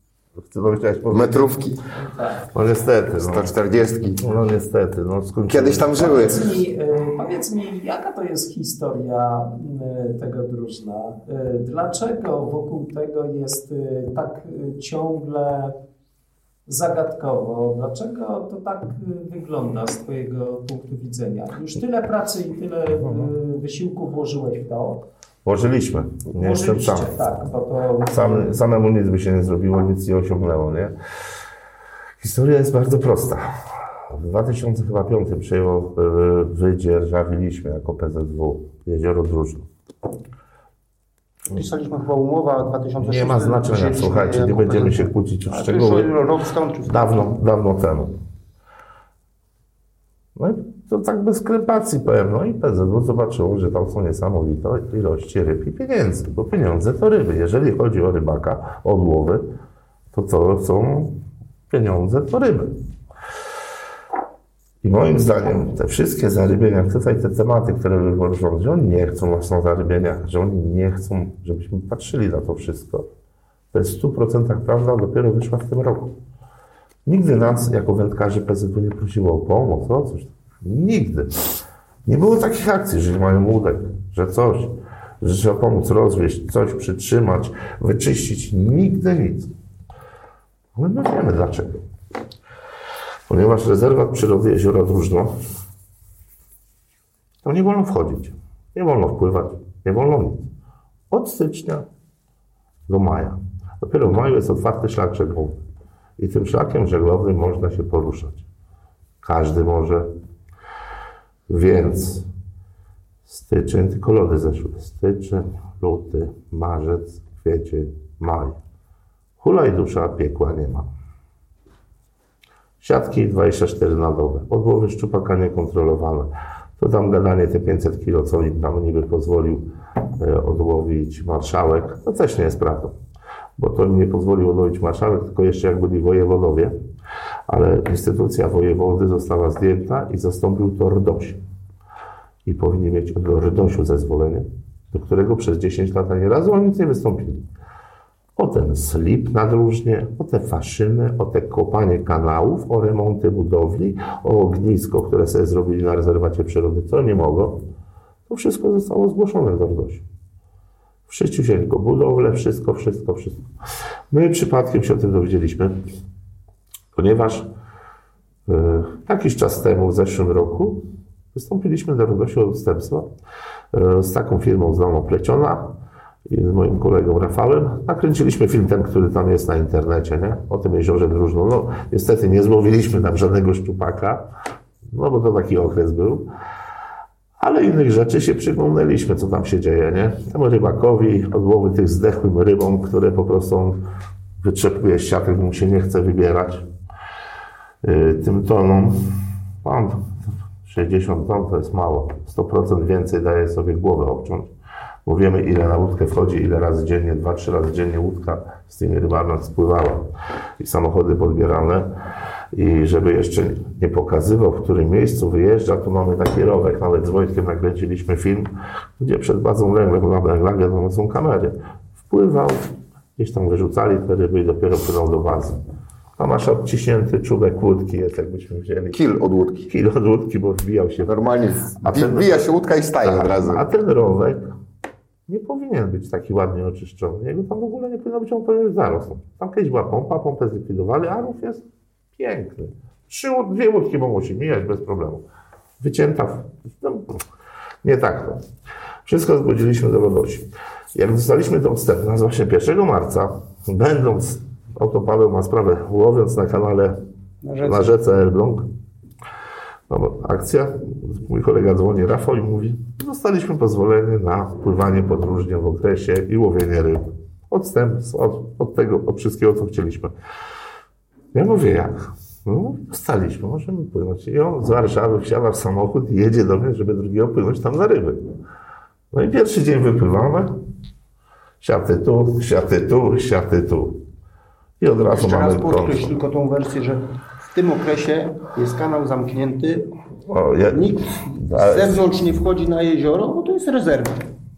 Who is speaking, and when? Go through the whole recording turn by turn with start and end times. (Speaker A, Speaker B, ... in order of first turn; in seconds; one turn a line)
Speaker A: 0.4-1.6
Speaker B: 1.1-1.8
Speaker C: 1.9-2.5
Speaker A: 2.5-6.4
Speaker B: 3.2-4.2
Speaker B: 5.5-6.4
Speaker C: 5.9-15.8
Speaker C: 16.6-25.0
Speaker A: 25.4-27.1
Speaker C: 26.4-28.5
Speaker A: 28.1-30.9
Speaker A: 32.2-33.5
Speaker A: 34.1-39.7
Speaker D: 41.5-47.3
Speaker A: 43.0-46.1
Speaker A: 46.9-48.2
Speaker A: 50.4-59.5
Speaker A: 60.1-61.2
Speaker A: 61.7-62.8
Speaker A: 64.8-73.1
Speaker A: 73.7-76.1
Speaker A: 77.0-89.5
Speaker A: 90.7-91.8
Speaker A: 93.3-95.3
Speaker A: 97.4-100.5
Speaker A: 101.1-101.8
Speaker A: 102.9-105.6
Speaker A: 106.2-108.4
Speaker A: 109.2-110.1
Speaker A: 111.5-112.2
Speaker A: 113.3-118.6
Speaker A: 119.4-120.9
Speaker A: 122.8-129.7
Speaker A: 130.2-132.9
Speaker A: 133.6-136.7
Speaker A: 137.5-141.4
Speaker A: 142.4-147.4
Speaker A: 148.3-157.6
Speaker A: 158.3-160.0
Speaker A: 161.1-163.4
Speaker A: 164.1-165.8
Speaker A: 166.9-167.5
Speaker A: 168.5-173.1
Speaker A: 173.7-175.8
Speaker A: 176.3-184.3
Speaker A: 184.9-186.3
Speaker A: 187.4-193.8
Speaker A: 194.4-196.7
Speaker A: 197.8-204.5
Speaker A: 205.1-211.9
Speaker A: 212.5-225.6
Speaker A: 226.2-229.0
Speaker B: 228.9-229.7
Speaker A: 229.7-231.2
Speaker B: 231.0-233.6
Speaker A: 231.8-234.5
Speaker A: 235.3-241.6
Speaker A: 242.2-245.2
Speaker A: 245.8-247.2
Speaker A: 247.8-248.4
Speaker A: 249.1-257.0
Speaker D: 257.4-257.9
Speaker A: 257.6-258.7
Speaker A: 259.9-270.1
Speaker A: 271.3-278.3
Speaker A: 279.1-280.5
Speaker A: 281.6-284.0
Speaker A: 284.8-286.2
Speaker D: 285.1-289.9
Speaker A: 290.3-292.0
Speaker D: 290.7-294.3